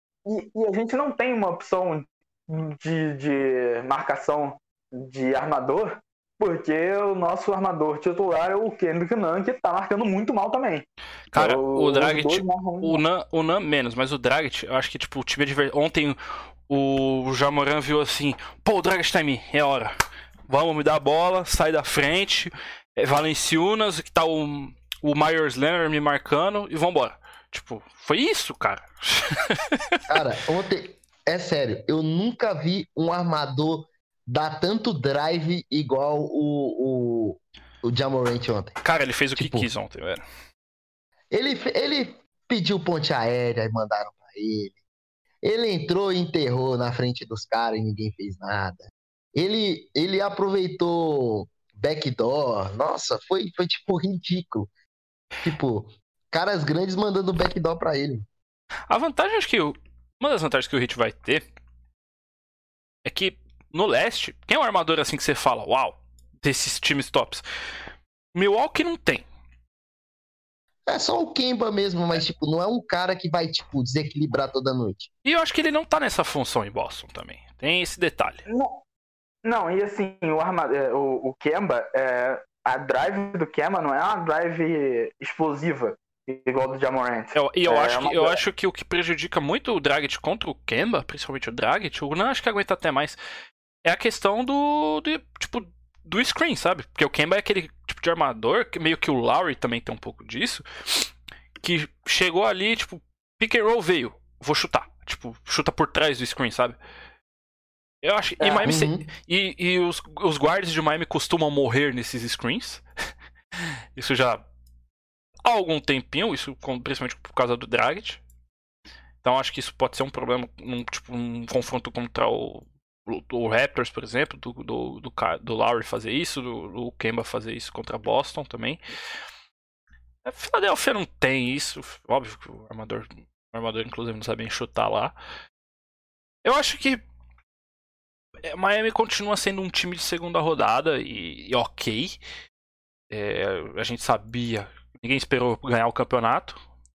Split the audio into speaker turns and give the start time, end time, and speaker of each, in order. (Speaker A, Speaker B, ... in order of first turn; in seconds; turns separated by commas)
Speaker A: 0.2-13.0, Speaker B: 11.3-19.9, Speaker B: 20.5-30.0, Speaker C: 30.1-38.8, Speaker B: 38.8-40.2, Speaker C: 39.4-39.7, Speaker C: 41.3-44.8, Speaker C: 45.4-54.7, Speaker C: 55.4-58.3, Speaker B: 58.9-61.4, Speaker B: 63.0-67.4, Speaker B: 68.3-69.2, Speaker C: 70.8-75.1, Speaker B: 75.2-78.4, Speaker A: 78.5-78.8, Speaker A: 79.4-88.4, Speaker B: 87.3-93.2, Speaker B: 93.8-106.8, Speaker B: 108.0-112.8, Speaker A: 108.4-108.7, Speaker C: 108.7-109.1, Speaker B: 114.0-114.4, Speaker B: 115.4-118.2, Speaker B: 119.2-128.8, Speaker B: 130.2-135.1, Speaker B: 136.4-137.0, Speaker B: 138.5-142.2, Speaker B: 143.1-146.6